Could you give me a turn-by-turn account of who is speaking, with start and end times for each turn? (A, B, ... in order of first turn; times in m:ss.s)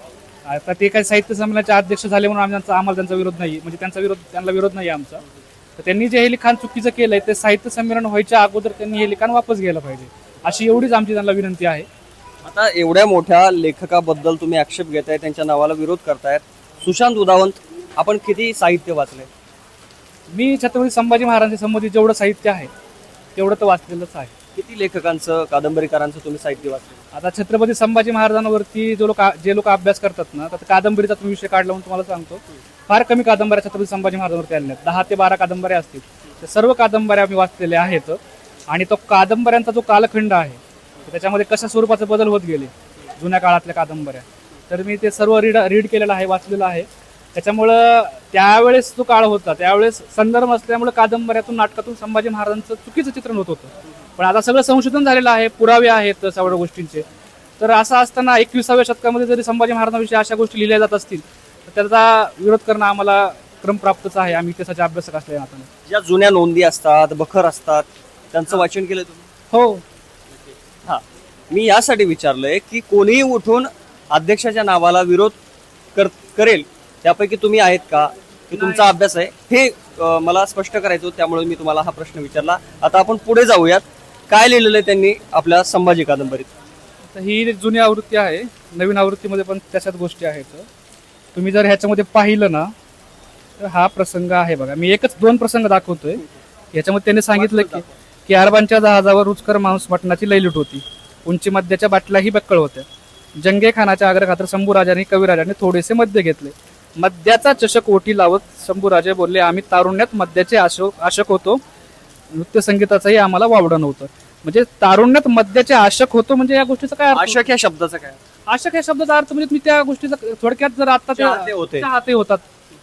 0:00.5-0:05.2 A
0:05.8-0:11.9 A
0:12.4-0:19.3 B
0:20.3-0:22.7 A
0:23.4-0:24.3 A
0:24.6-0:27.0 B
0:27.1-0:38.2 A
0:38.7-0:57.0 A
0:57.6-1:05.7 A
1:05.9-1:09.2 B
1:09.5-1:09.8 A
1:10.8-1:15.4 B
1:16.0-1:26.5 B
1:18.6-1:18.8 A
1:27.1-1:30.7 A
1:31.4-1:32.7 A
1:33.6-1:51.6 A
1:37.3-1:37.9 B
1:52.3-1:57.4 A
1:57.1-1:58.2 B
1:58.5-2:02.4 A
2:01.2-2:01.9 B